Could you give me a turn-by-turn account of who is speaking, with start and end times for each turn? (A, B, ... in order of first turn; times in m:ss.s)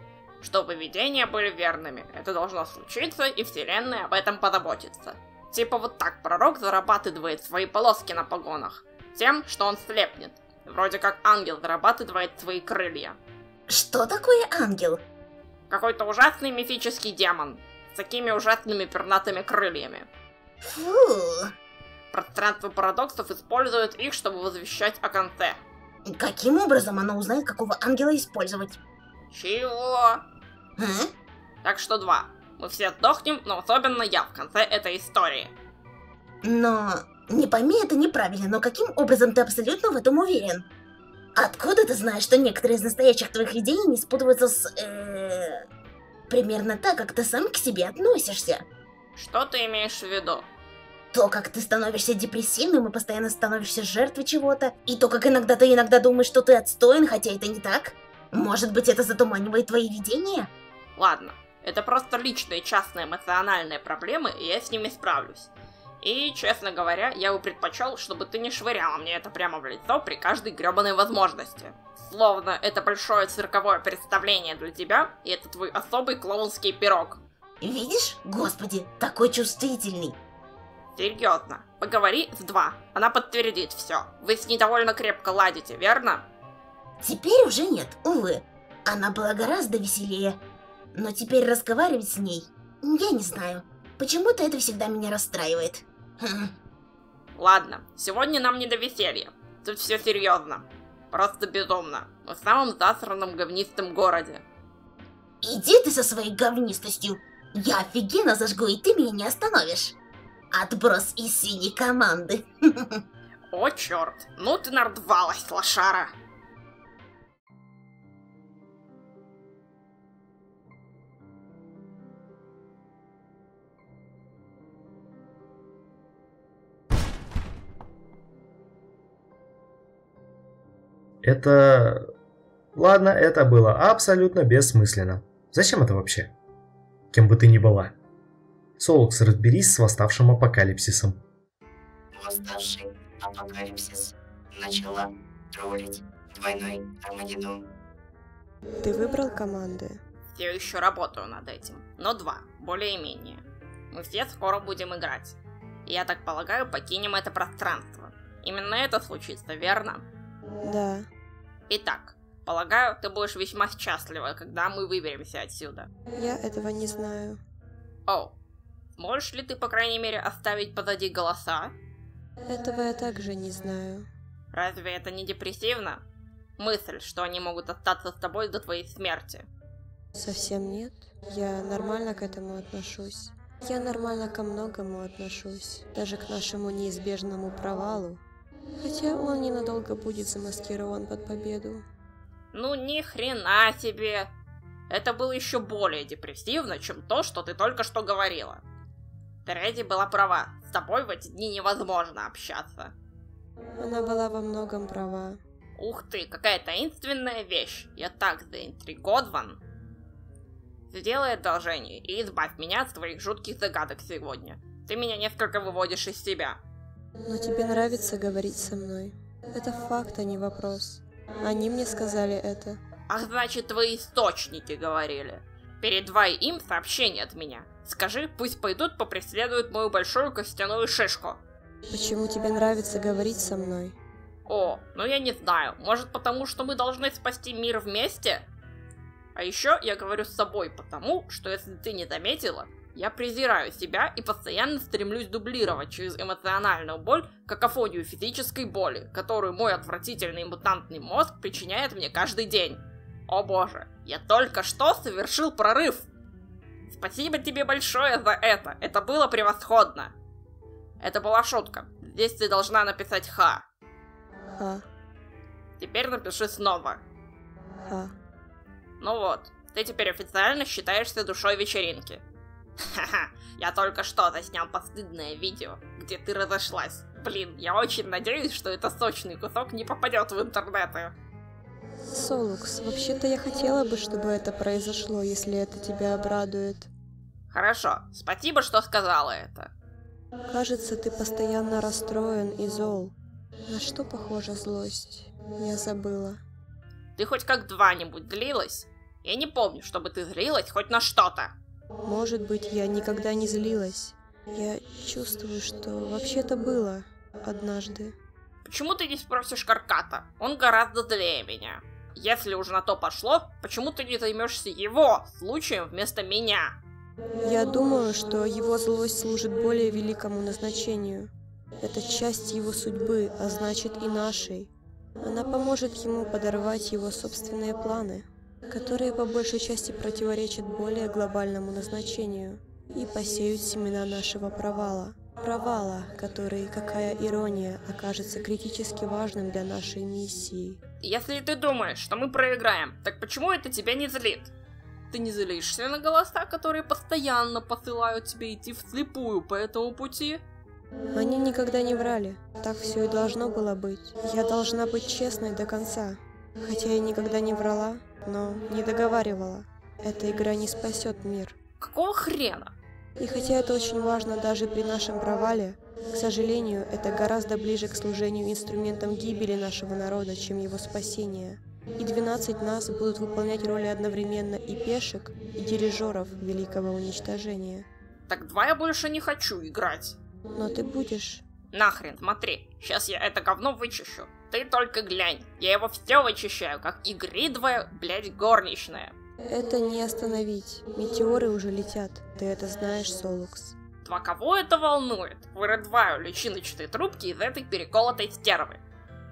0:00.4-0:13.2 A
0:13.7-0:15.0 B
0:15.7-0:20.1 A
0:20.6-0:21.5 B
0:22.1-0:25.6 A
0:26.1-0:28.8 B
0:29.3-0:30.2 A
0:30.8-0:31.1 B
0:31.6-0:35.5 A
0:36.4-0:40.7 B
0:41.4-0:45.6 B
0:46.3-0:48.6 B
0:49.2-0:50.5 A
0:51.1-1:00.5 B
1:01.0-1:05.5 A
1:06.0-1:17.2 A
1:17.6-1:20.2 B
1:21.0-1:26.2 A
1:27.0-1:30.4 B
1:30.9-1:36.5 B
1:37.4-1:44.4 A
1:45.4-1:50.0 B
1:50.5-1:53.0 B
1:53.5-1:56.1 A
2:11.2-2:12.0 C
2:12.8-2:16.3 C
2:17.1-2:17.9 C
2:18.8-2:21.2 C
2:22.1-2:27.6 D
2:28.8-2:30.0 E
2:30.3-2:40.0 A
2:40.6-2:41.1 E
2:41.7-2:45.9 A
2:46.1-2:47.4 E
2:48.1-2:48.3 A
2:49.0-2:51.7 A
2:52.5-2:54.1 E
2:54.5-2:56.0 A
2:56.6-2:59.4 A
3:00.1-3:08.2 E
3:08.8-3:11.8 E
3:12.5-3:14.3 A
3:14.9-3:18.6 A
3:19.4-3:22.9 A
3:23.8-3:25.4 E
3:25.8-3:29.6 A
3:30.9-3:36.6 A
3:37.2-3:42.8 E
3:43.1-3:51.4 A
3:51.9-3:54.0 E
3:54.5-3:58.5 A
3:59.3-4:16.1 A
4:16.9-4:20.1 A
4:21.0-4:23.6 A
4:24.5-4:24.8 E
4:25.8-4:27.0 A
4:27.8-4:28.1 E
4:29.0-4:32.2 A
4:32.8-4:41.1 A
4:42.1-4:46.9 E
4:47.5-4:49.7 A
4:50.5-4:53.1 E
4:53.7-4:56.4 E
4:57.2-5:01.5 A
5:02.0-5:08.2 E
5:08.6-5:16.8 A
5:17.4-5:21.3 E
5:21.8-5:40.8 E
5:41.0-5:44.5 A
5:45.1-5:50.4 A
5:51.1-6:01.6 E
6:01.8-6:02.7 A
6:03.2-6:17.9 E
6:18.3-6:20.2 A
6:20.5-6:21.4 E
6:21.7-6:29.1 A
6:29.4-6:33.7 E
6:34.0-6:38.8 A